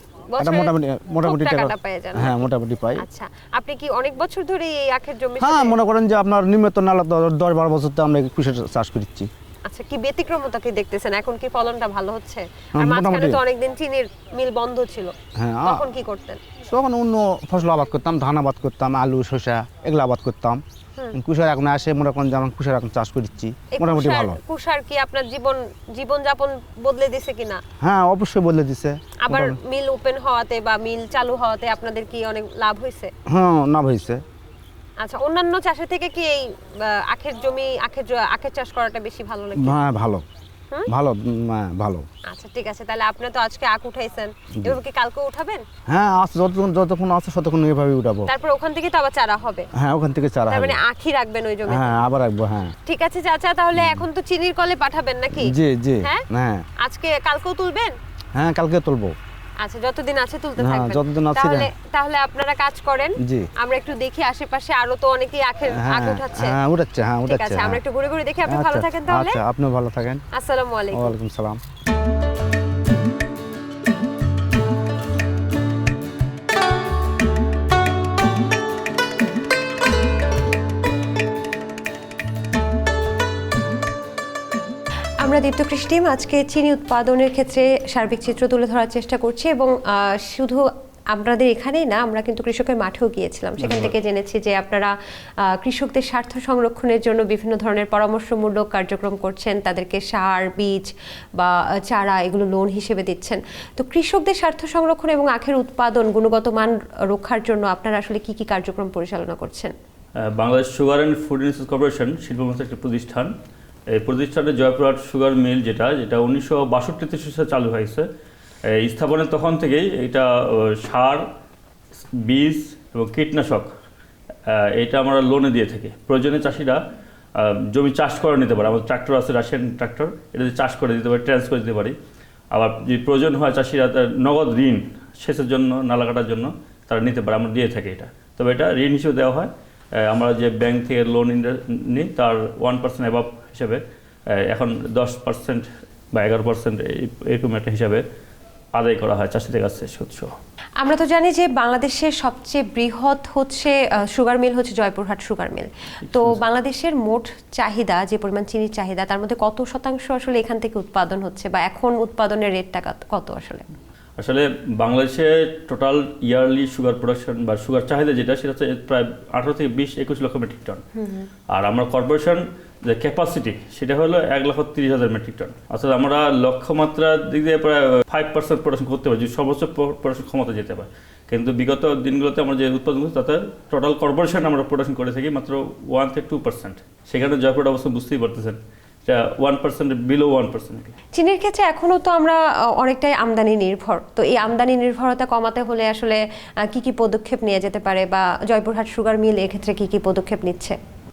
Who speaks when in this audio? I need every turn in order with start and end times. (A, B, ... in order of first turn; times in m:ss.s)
0:00.3-0:00.7 A
0:00.4-0:03.0 B
0:01.2-0:02.4 A
0:03.0-0:05.7 A
0:05.4-0:09.3 B
0:09.7-0:15.1 A
0:12.8-0:13.4 B
0:15.4-0:15.8 B
0:15.6-0:16.4 A
0:16.7-0:20.6 B
0:21.1-0:24.4 B
0:23.7-0:27.6 A
0:27.8-0:29.6 B
0:29.2-0:33.1 A
0:33.3-0:34.2 B
0:35.0-0:39.8 A
0:39.5-0:40.2 B
0:40.9-0:42.0 B
0:42.3-0:45.6 A
0:45.9-0:48.3 B
0:48.3-0:49.7 A
0:49.8-0:50.8 B
0:50.5-0:51.9 A
0:51.7-0:52.7 B
0:52.8-0:56.2 A
0:53.8-0:54.0 B
0:55.4-0:56.6 B
0:56.8-0:57.9 A
0:58.4-0:59.2 B
0:59.6-1:06.5 A
1:00.6-1:01.7 B
1:05.7-1:07.8 B
1:07.3-1:09.4 A
1:08.5-1:10.2 B
1:10.3-1:11.1 A
1:10.9-1:11.6 B
1:25.2-1:34.9 A
1:33.6-1:33.9 B
1:35.6-1:49.7 A
1:50.3-1:53.3 C
1:53.9-1:58.0 C
1:58.8-2:00.3 C
2:00.8-2:01.2 C
2:02.2-2:03.7 C
2:04.5-2:06.8 C
2:07.4-2:12.0 C
2:12.5-2:19.5 C
2:20.0-2:23.8 C
2:24.5-2:28.0 C
2:28.8-2:30.3 C
2:30.8-2:43.6 A
2:44.2-2:50.8 C
2:51.0-2:51.3 A
2:51.5-3:10.9 C
3:11.1-3:20.8 A